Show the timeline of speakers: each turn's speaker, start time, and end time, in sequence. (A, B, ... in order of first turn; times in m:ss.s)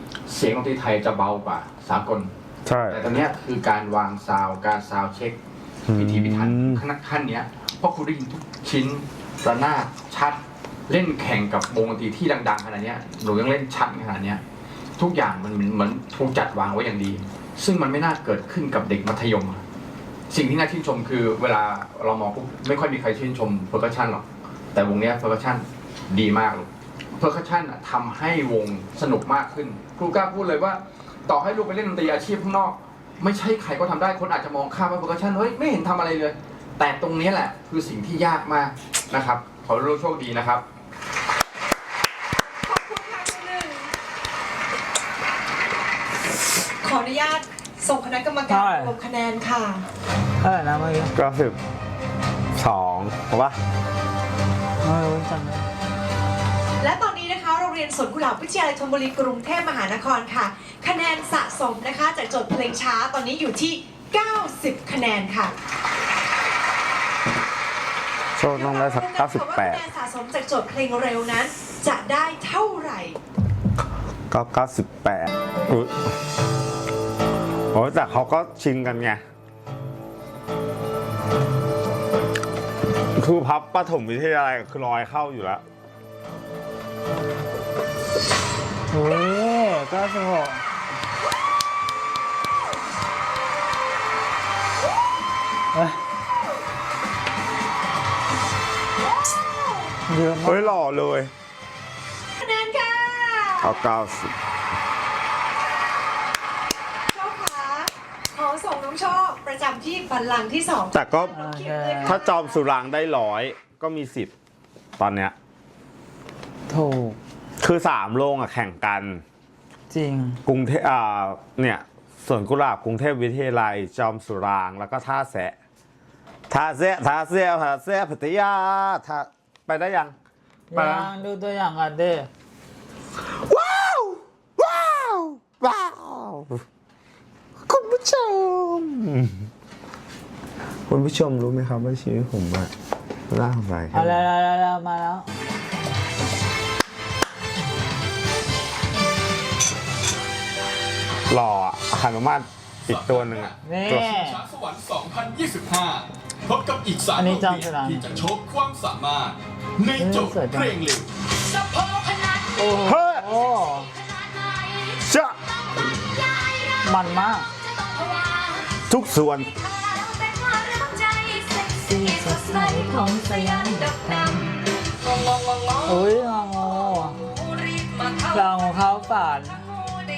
0:00.3-0:02.3 A
0:02.7-0:03.0 B
0:02.9-0:05.4 A
0:05.9-0:06.8 B
0:05.9-0:14.4 A
0:15.0-0:19.6 A
0:20.3-0:40.6 A
0:42.6-0:43.9 C
0:46.8-0:49.8 C
0:48.5-0:49.0 D
0:50.4-0:51.1 D
0:51.2-0:51.6 B
0:52.6-0:53.6 B
0:54.8-0:55.7 D
0:56.8-1:05.5 C
1:08.4-1:09.8 B
1:08.4-1:13.2 C
1:14.3-1:16.0 B
1:17.7-1:19.2 B
1:23.2-1:25.6 B
1:28.9-1:30.6 D
1:35.7-1:36.0 D
1:39.2-1:39.9 C
1:40.1-1:40.8 D
1:40.4-1:41.3 B
1:42.4-1:43.8 C
1:43.6-1:44.3 B
1:47.1-1:52.6 C
1:50.9-1:51.4 B
1:51.3-1:52.2 D
1:52.0-1:54.3 B
1:55.0-1:55.3 B
1:56.7-1:57.2 D
1:57.6-1:59.2 B
1:59.9-2:00.4 D
2:00.5-2:05.6 B
2:06.5-2:10.2 B
2:10.7-2:12.3 D
2:10.7-2:11.1 B
2:13.4-2:16.6 B
2:17.7-2:19.5 B
2:20.9-2:22.7 B
2:23.3-2:24.2 B
2:23.9-2:25.3 D
2:31.3-2:34.2 B
2:32.8-2:41.1 E
2:33.6-2:34.4 D
2:37.2-2:38.2 D
2:40.0-2:40.8 D
2:42.6-2:43.9 D
2:42.8-2:43.3 B
2:45.1-2:45.4 B
2:46.8-2:47.5 D
2:48.9-2:49.6 B
2:51.8-2:54.6 D
2:55.9-2:57.2 D
2:58.3-2:59.7 D